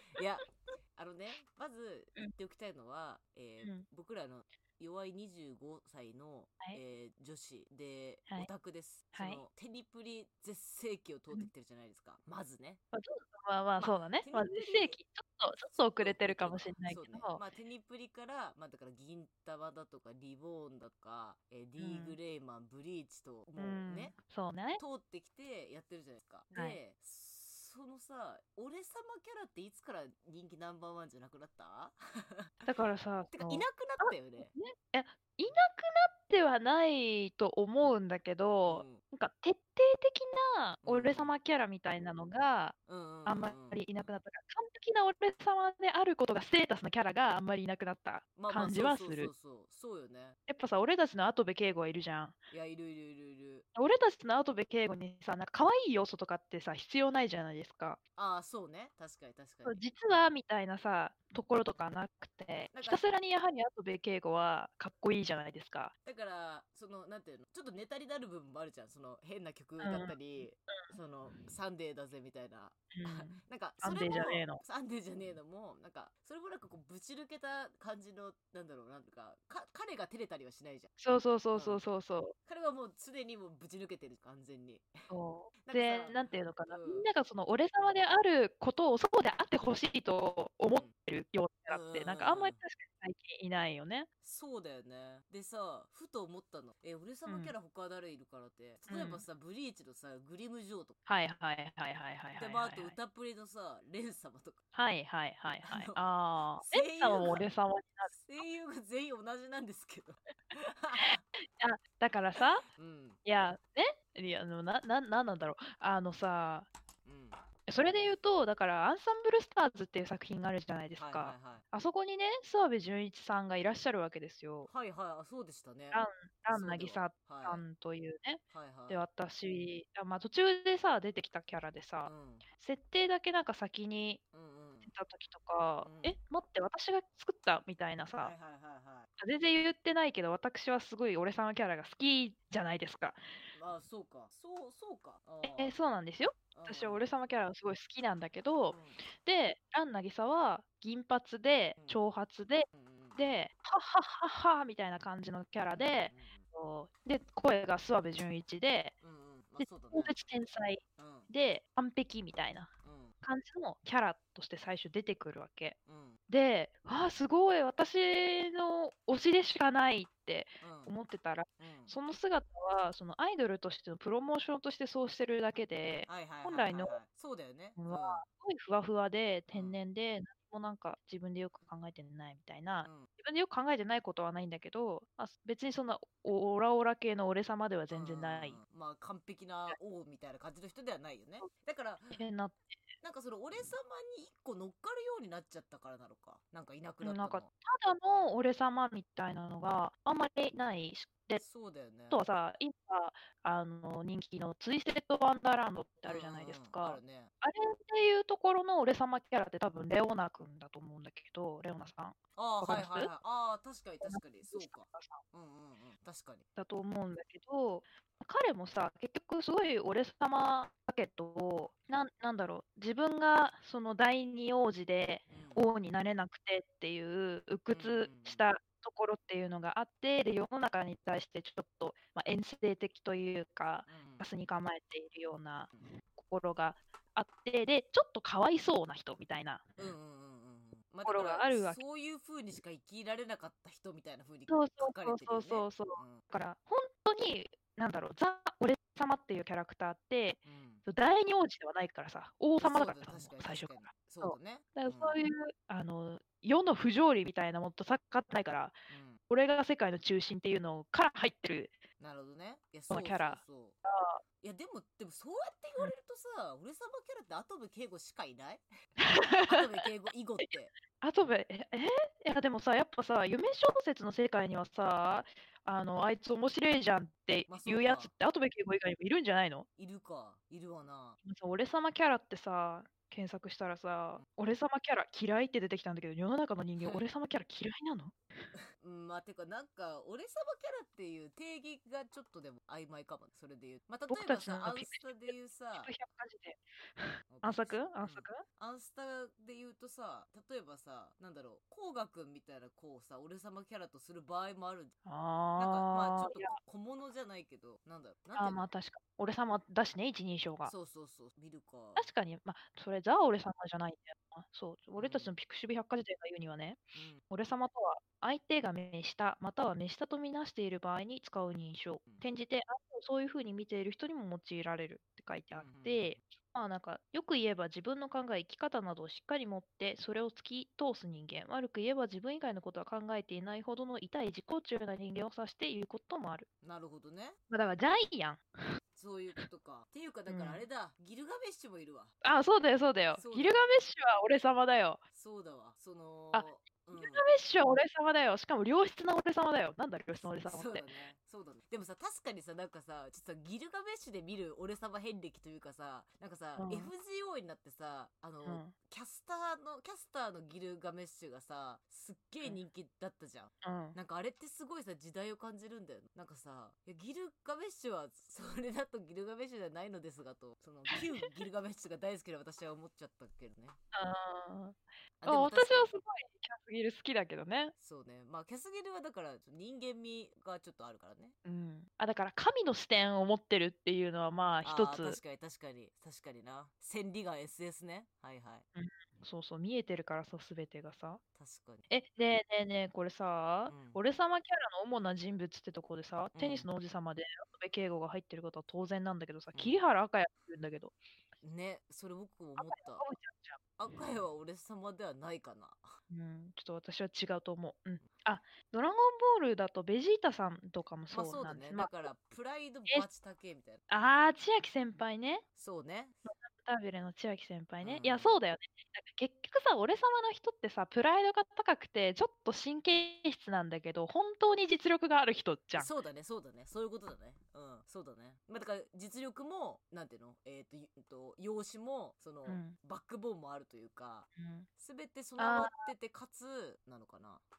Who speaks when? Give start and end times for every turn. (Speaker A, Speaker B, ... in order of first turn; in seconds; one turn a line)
Speaker A: 0.1-12.8
Speaker B: 3.6-3.9
Speaker B: 9.1-9.4
Speaker B: 12.9-17.4
Speaker A: 13.8-15.0
Speaker A: 15.5-24.1
Speaker B: 21.8-22.2
Speaker B: 23.6-24.8
Speaker A: 24.8-32.5
Speaker B: 32.6-49.3
Speaker A: 33.3-34.5
Speaker A: 38.7-39.0
Speaker A: 40.8-41.3
Speaker A: 42.9-44.1
Speaker A: 48.4-50.4
Speaker B: 50.5-52.4
Speaker A: 52.5-53.6
Speaker B: 53.7-58.0
Speaker A: 58.1-59.8
Speaker B: 59.6-65.9
Speaker A: 62.7-63.0
Speaker A: 66.0-80.9
Speaker B: 69.8-70.9
Speaker B: 72.9-74.6
Speaker B: 81.0-82.3
Speaker A: 81.5-81.8
Speaker A: 82.5-85.1
Speaker B: 85.1-94.1
Speaker A: 85.6-87.1
Speaker A: 91.7-92.6
Speaker A: 94.2-101.0
Speaker B: 97.2-97.5
Speaker B: 98.9-99.2
Speaker B: 101.1-103.0
Speaker A: 102.3-104.6
Speaker B: 104.7-108.4
Speaker A: 105.6-106.0
Speaker A: 106.6-107.4
Speaker A: 108.0-111.2
Speaker B: 111.0-112.6
Speaker A: 112.7-113.2
Speaker B: 113.2-116.7
Speaker A: 117.0-118.1
Speaker B: 117.7-124.7
Speaker A: 121.0-121.6
Speaker A: 124.7-127.6
Speaker B: 125.9-134.2
Speaker A: 128.5-129.1
Speaker A: 132.0-132.4
Speaker A: 134.3-134.9
Speaker B: 134.8-138.3
Speaker A: 135.8-136.2
Speaker A: 138.2-139.1
Speaker B: 139.2-143.2
Speaker A: 143.5-145.8
Speaker B: 145.4-158.9
Speaker A: 146.5-147.0
Speaker A: 148.7-149.0
Speaker A: 152.7-153.4
Speaker A: 155.7-156.4
Speaker A: 159.0-160.1
Speaker B: 159.6-162.7
Speaker A: 161.0-161.3
Speaker A: 162.8-163.1
Speaker B: 163.2-165.8
Speaker A: 165.9-166.2
Speaker B: 166.3-177.0
Speaker A: 170.6-170.9
Speaker A: 171.6-171.9
Speaker A: 176.1-178.2
Speaker B: 177.8-188.6
Speaker A: 179.5-179.8
Speaker A: 182.8-183.1
Speaker A: 187.9-192.2
Speaker B: 192.1-192.8
Speaker A: 193.0-197.5
Speaker B: 197.0-201.4
Speaker A: 201.4-202.2
Speaker B: 202.1-213.1
Speaker A: 206.1-207.3
Speaker A: 212.3-216.4
Speaker B: 214.0-215.2
Speaker B: 216.6-239.7
Speaker A: 225.3-225.6
Speaker A: 227.7-228.4
Speaker A: 233.9-234.2
Speaker A: 239.8-246.2
Speaker B: 241.0-241.8
Speaker B: 244.5-258.8
Speaker A: 250.4-250.8
Speaker A: 252.6-255.2
Speaker A: 258.9-259.2
Speaker B: 259.3-261.8
Speaker A: 262.0-263.8
Speaker B: 262.9-264.2
Speaker A: 264.4-268.6
Speaker B: 269.0-269.6
Speaker A: 269.4-270.7
Speaker B: 270.4-279.6
Speaker A: 277.5-278.1
Speaker A: 279.8-281.2
Speaker B: 281.2-288.1
Speaker A: 286.8-287.0
Speaker A: 288.8-295.9
Speaker B: 294.1-298.4
Speaker A: 297.3-304.9
Speaker B: 305.0-306.6
Speaker A: 305.6-308.6
Speaker B: 308.4-310.7
Speaker A: 310.6-312.1
Speaker B: 311.9-336.5
Speaker A: 315.0-315.3
Speaker A: 316.9-317.2
Speaker A: 325.5-326.2
Speaker A: 336.6-337.4
Speaker B: 337.5-338.4
Speaker A: 338.9-342.1
Speaker B: 340.3-340.6
Speaker B: 342.2-345.0
Speaker A: 343.1-343.6
Speaker A: 345.1-347.2
Speaker B: 346.3-350.9
Speaker A: 350.4-373.8
Speaker B: 356.6-356.9
Speaker B: 358.4-358.7
Speaker B: 363.6-364.0
Speaker B: 373.9-377.7
Speaker A: 375.2-376.0
Speaker A: 377.8-381.3
Speaker B: 381.4-385.2
Speaker A: 384.6-388.6
Speaker B: 388.7-391.2
Speaker A: 391.4-391.9
Speaker B: 391.9-401.0
Speaker A: 393.7-394.0
Speaker A: 396.3-396.7
Speaker A: 399.5-399.8
Speaker A: 401.4-403.1
Speaker B: 402.6-403.6
Speaker A: 403.8-406.0
Speaker B: 406.1-412.1
Speaker A: 411.1-413.8
Speaker B: 413.9-415.4
Speaker A: 415.6-416.1
Speaker B: 416.2-425.9
Speaker A: 417.8-418.4
Speaker A: 425.7-437.4
Speaker B: 432.5-432.8
Speaker B: 434.4-434.7
Speaker B: 435.4-435.9